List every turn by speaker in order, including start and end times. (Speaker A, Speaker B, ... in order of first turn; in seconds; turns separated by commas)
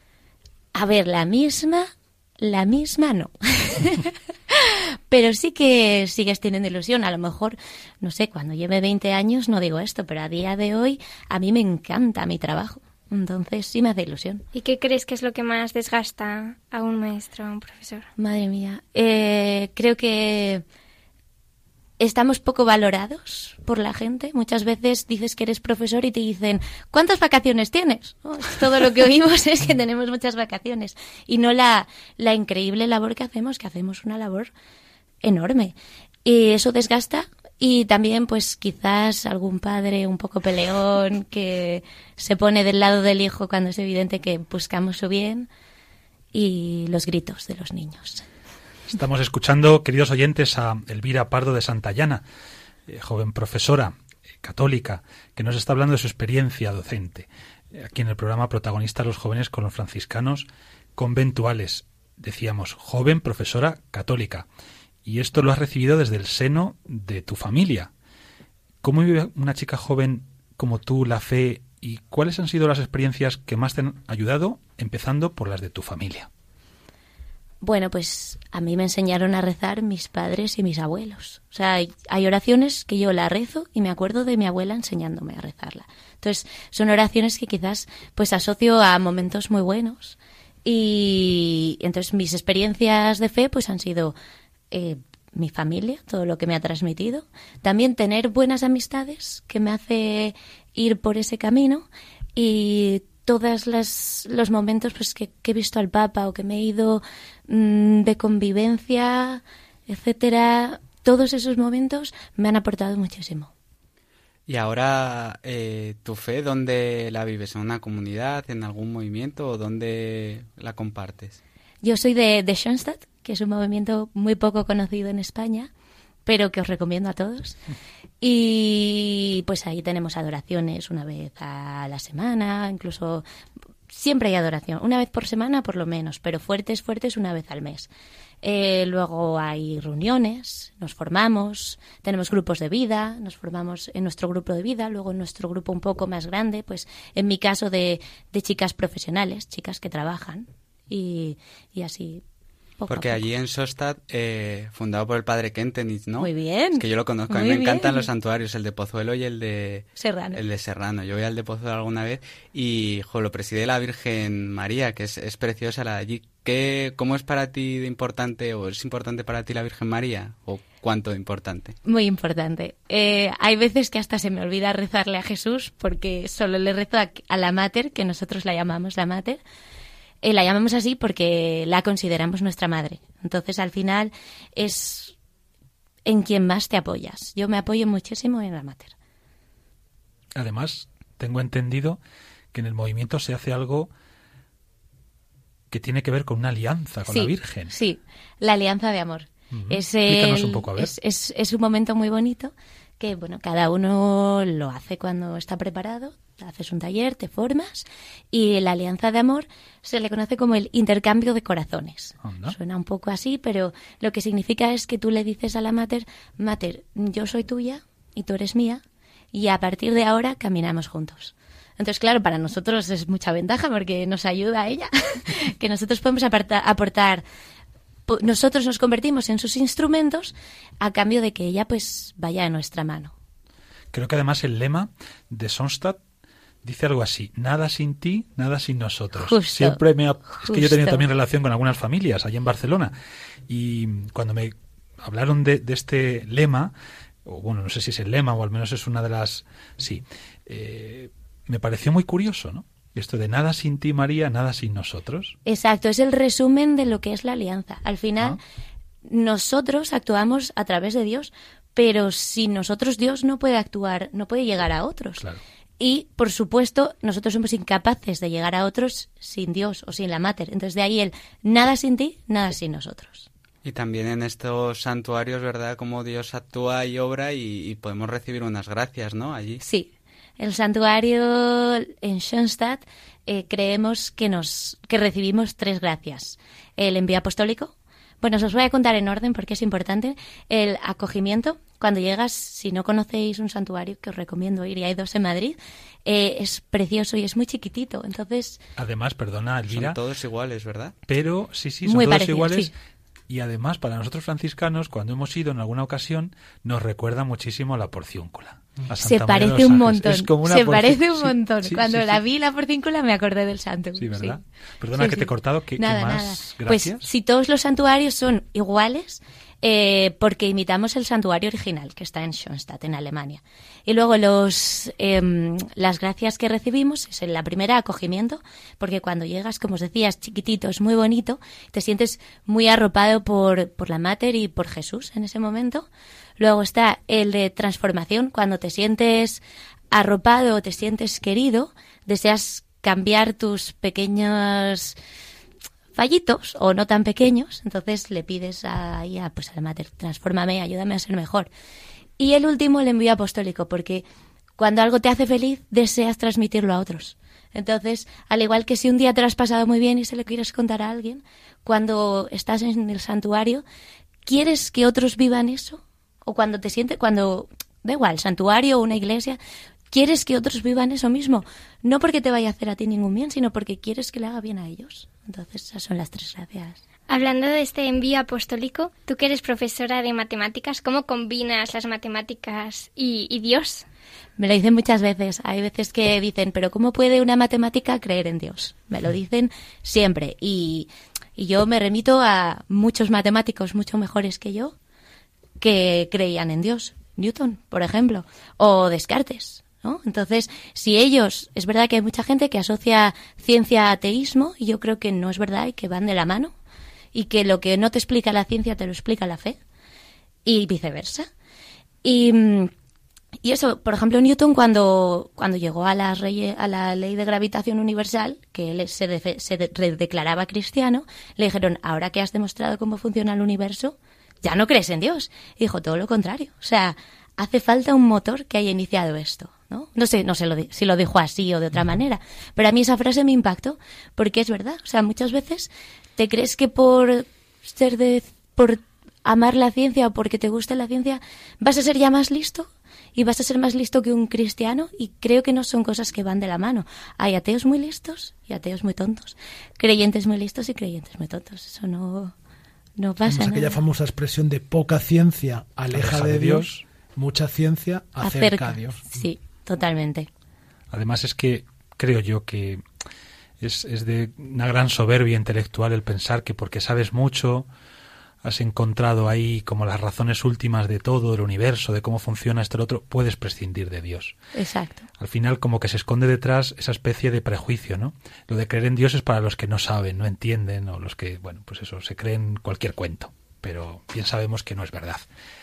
Speaker A: 0.7-1.9, Speaker A: 2.4-14.4, Speaker B: 14.5-18.1, Speaker A: 18.2-20.6, Speaker A: 22.0-34.5, Speaker A: 35.2-45.5, Speaker A: 46.3-48.2, Speaker C: 48.9-52.2, Speaker C: 52.9-64.5, Speaker C: 65.0-67.9, Speaker C: 68.8-76.3, Speaker A: 77.6-94.1, Speaker A: 94.7-113.5, Speaker D: 114.5-121.4, Speaker A: 121.8-125.7, Speaker A: 126.2-127.6, Speaker A: 128.2-133.2, Speaker A: 133.9-137.9, Speaker A: 138.4-152.2, Speaker A: 152.8-153.2, Speaker D: 152.9-171.8, Speaker A: 156.2-158.1, Speaker A: 159.9-160.4, Speaker A: 171.8-179.4, Speaker A: 180.2-185.1, Speaker A: 186.0-188.9, Speaker C: 190.3-192.0, Speaker C: 192.5-193.9, Speaker C: 195.7-197.7, Speaker A: 197.1-218.8, Speaker C: 199.5-200.9, Speaker C: 212.2-212.6, Speaker A: 219.3-227.2, Speaker A: 228.1-233.1, Speaker C: 233.9-236.0, Speaker C: 236.6-242.9, Speaker A: 239.2-241.0, Speaker C: 243.5-246.7, Speaker C: 247.2-255.3, Speaker A: 255.4-258.4, Speaker A: 259.1-265.2, Speaker A: 265.8-273.3, Speaker D: 273.6-279.6, Speaker A: 279.6-298.6, Speaker C: 298.8-300.0, Speaker D: 299.7-300.9, Speaker C: 301.1-302.7, Speaker A: 301.8-302.7, Speaker C: 303.3-312.2, Speaker A: 308.9-314.4, Speaker C: 314.0-317.1, Speaker A: 314.9-344.9, Speaker A: 345.9-351.5, Speaker A: 352.2-354.0, Speaker A: 354.6-363.6, Speaker A: 364.2-369.4, Speaker A: 369.9-376.8, Speaker B: 377.1-383.8, Speaker A: 384.4-394.7, Speaker A: 395.6-406.5, Speaker A: 407.1-409.6, Speaker A: 410.4-411.3, Speaker A: 412.0-412.7, Speaker A: 413.4-452.3, Speaker A: 453.0-453.8, Speaker E: 453.3-459.0, Speaker C: 455.9-456.8, Speaker A: 458.2-460.3, Speaker C: 460.9-462.8, Speaker C: 463.6-467.7, Speaker C: 468.4-474.3, Speaker A: 474.6-475.1, Speaker C: 475.2-485.2